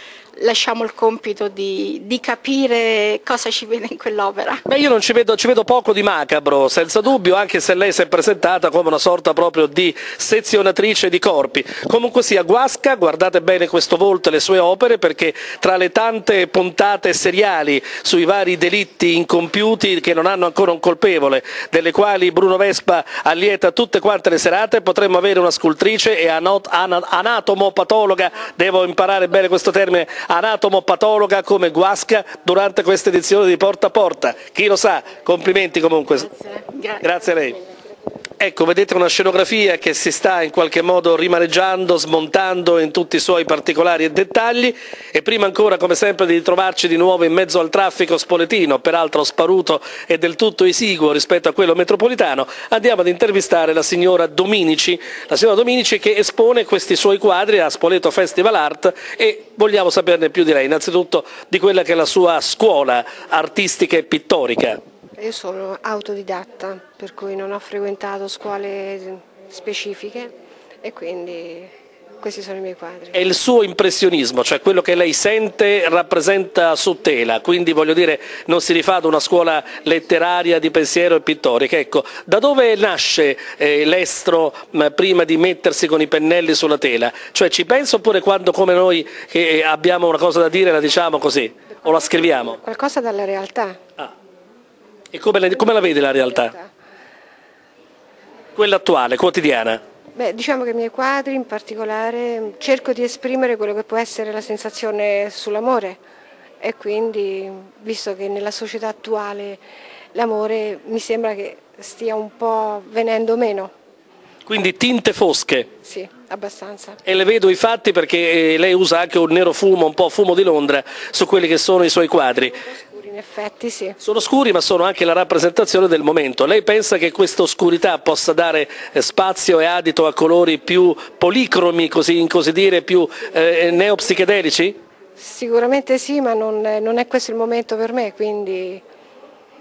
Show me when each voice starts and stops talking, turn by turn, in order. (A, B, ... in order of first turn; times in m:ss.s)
0:00.4-0:04.6 A
0:04.7-0:36.3 B
0:36.3-0:37.0 A
0:37.0-0:37.6 B
0:38.4-1:04.8 B
1:05.2-1:13.2 C
1:13.1-1:32.6 B
1:31.8-1:33.8 C
1:35.1-1:36.5 B
1:38.5-1:39.8 B
1:40.1-1:46.0 C
1:46.6-1:49.6 C
1:50.1-1:53.7 C
1:54.4-1:55.7 B
1:55.8-1:57.0 C
1:57.0-2:02.6 B
2:02.7-2:04.0 C
2:04.0-2:14.8 B
2:15.2-2:18.8 C